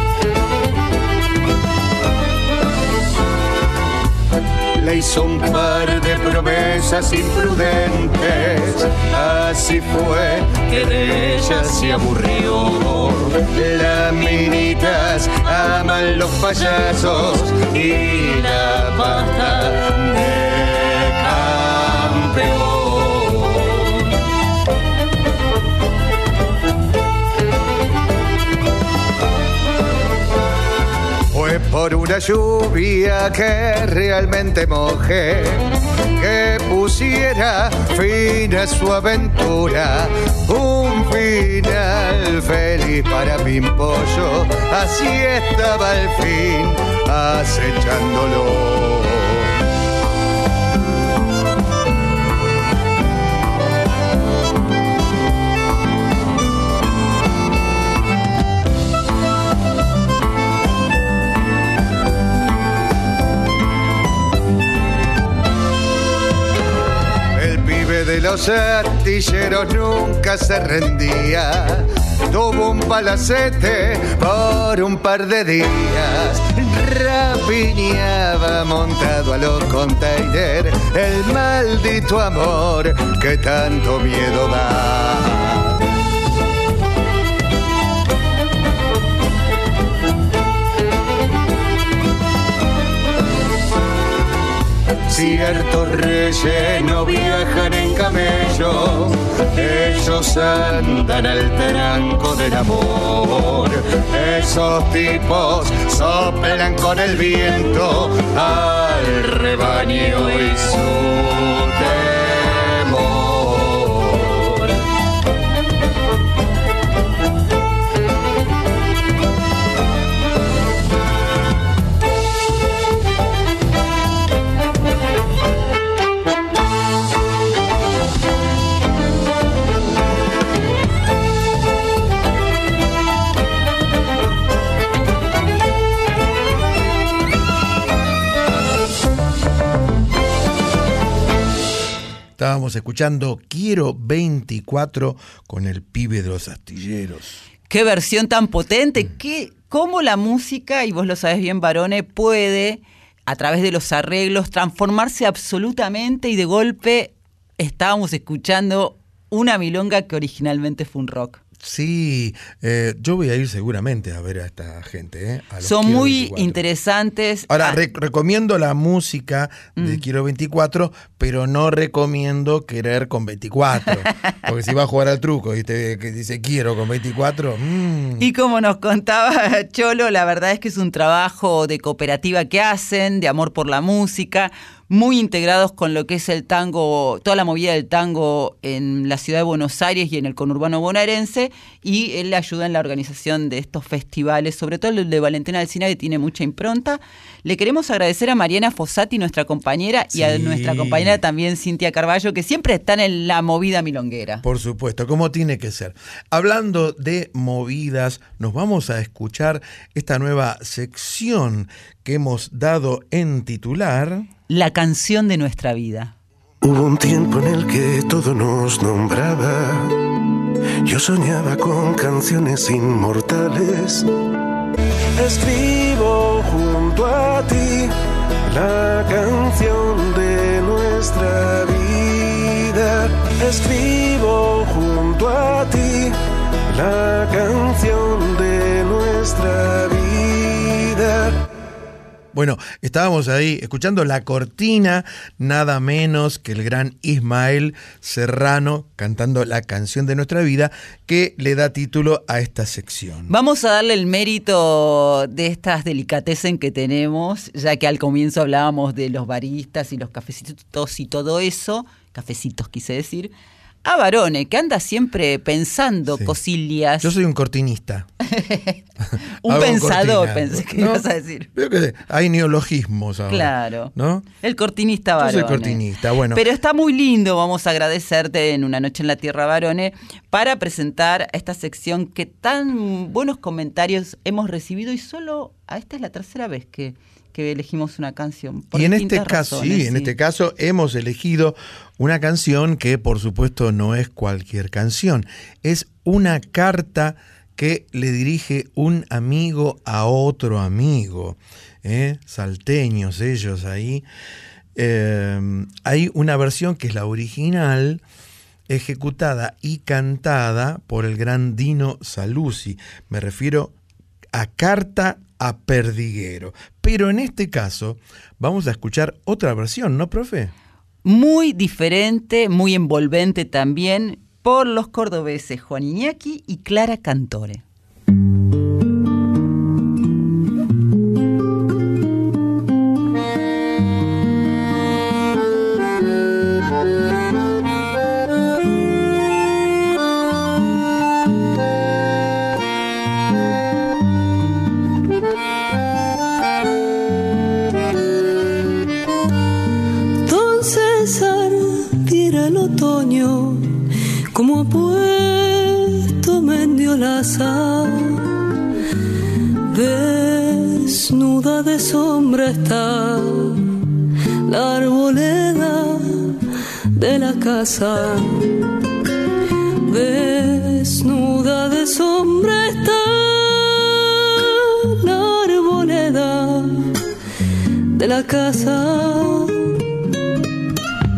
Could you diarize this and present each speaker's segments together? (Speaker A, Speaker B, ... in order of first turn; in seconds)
Speaker A: 4.8-23.9, 31.3-49.5, 67.3-85.8, 95.1-114.6
Speaker B: 142.4-147.4, 161.6-166.6, 167.5-178.2, 200.1-201.2, 204.4-214.3, 242.3-253.3, 267.0-268.1, 269.4-274.3, 275.2-276.4, 288.7-304.1, 304.8-308.0, 308.7-313.7, 314.3-320.5
Speaker C: 147.7-161.4, 165.6-167.8, 178.2-204.4, 214.5-216.1, 253.3-263.3, 263.8-267.1, 268.3-268.8, 269.4-271.5, 273.3-275.8, 276.3-290.1, 321.0-327.6
Speaker D: 216.6-219.9, 220.8-224.1, 225.2-227.9, 228.5-236.2, 236.7-241.5
Speaker E: 350.2-353.7, 354.3-358.2, 359.7-363.6, 364.5-366.3, 366.9-368.5, 369.9-374.0, 374.9-376.8, 377.9-379.6